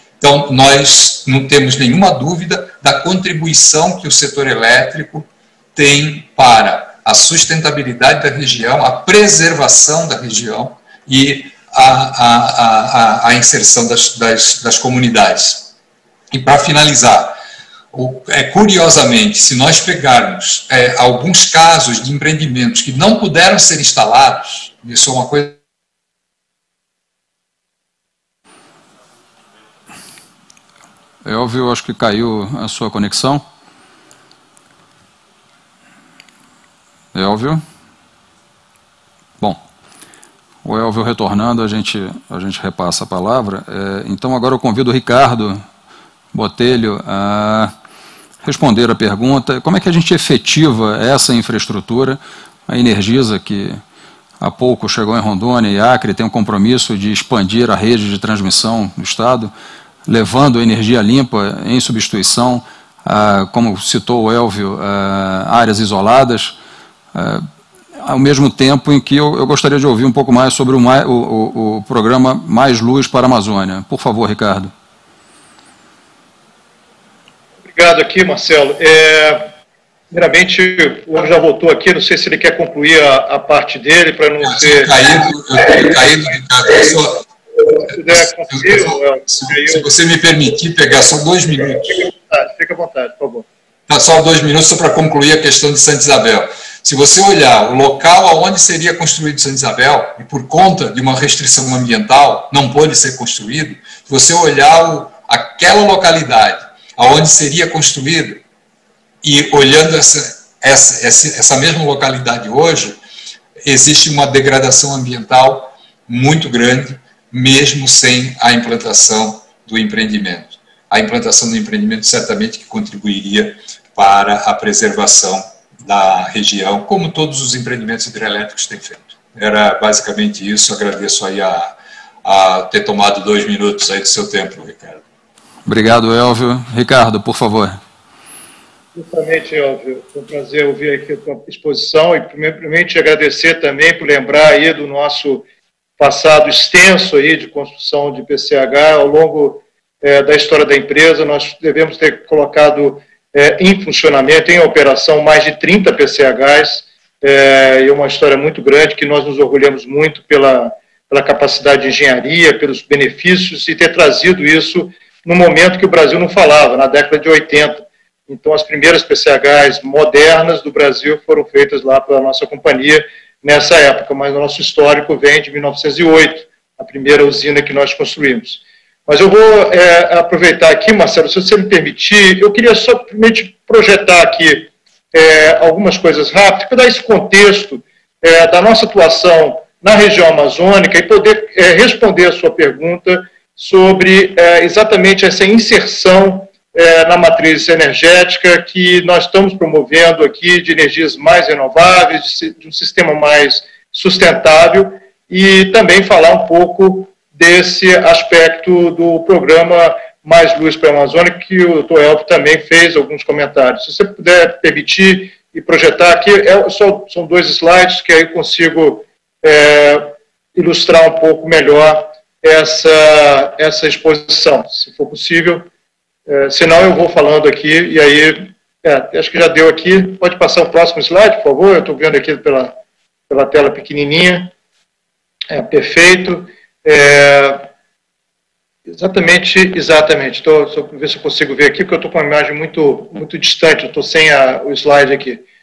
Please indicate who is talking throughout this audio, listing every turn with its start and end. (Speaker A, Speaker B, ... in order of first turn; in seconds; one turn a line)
Speaker A: 0.2-15.7
Speaker A: 16.3-17.4
Speaker A: 17.9-25.6
Speaker B: 31.2-33.4
Speaker B: 37.1-37.6
Speaker B: 40.6-45.6
Speaker B: 46.3-47.7
Speaker B: 48.4-53.8
Speaker B: 54.4-59.5
Speaker B: 60.1-66.5
Speaker B: 67.1-67.5
Speaker B: 68.1-74.7
Speaker C: 77.7-79.5
Speaker C: 80.1-84.9
Speaker A: 84.4-87.2
Speaker C: 87.7-89.8
Speaker A: 88.5-92.0
Speaker C: 91.9-93.5
Speaker A: 93.9-108.4
Speaker A: 109.2-113.0
Speaker A: 113.6-135.0
Speaker B: 135.7-137.8
Speaker C: 138.9-145.4
Speaker C: 146.0-225.7
Speaker C: 226.3-232.7
Speaker C: 233.3-234.5
Speaker C: 235.5-237.7
Speaker C: 238.9-245.4